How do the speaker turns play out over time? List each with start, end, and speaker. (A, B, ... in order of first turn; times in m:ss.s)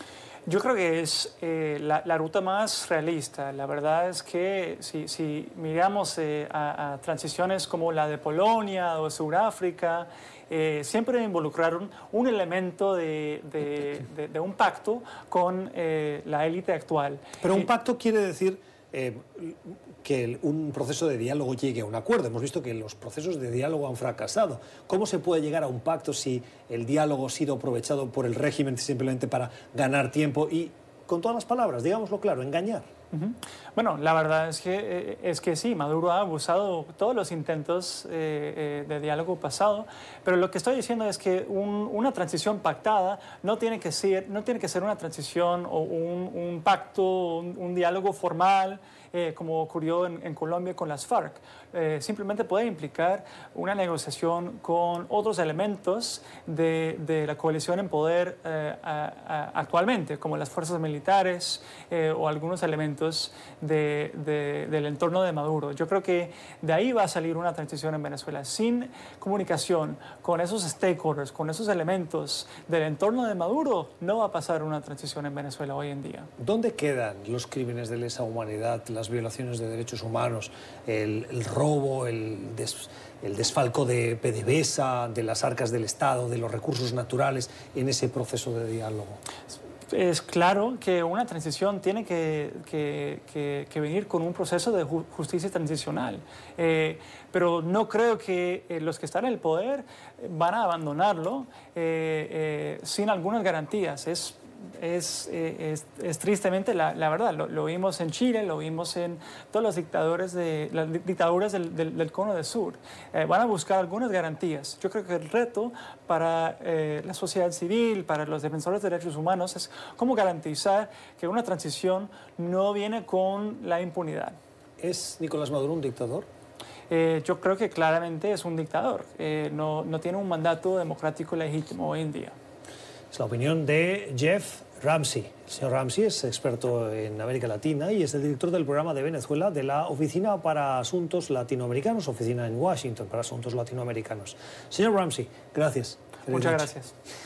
0:00.5-0:17.7 A
0:17.4-0:32.8 B
0:33.1-1:16.3 A
1:16.4-1:29.2 B
1:29.9-2:04.4 A
2:04.8-2:06.3 B
2:06.9-2:12.3 A
2:13.1-2:26.7 B
2:26.3-2:26.9 A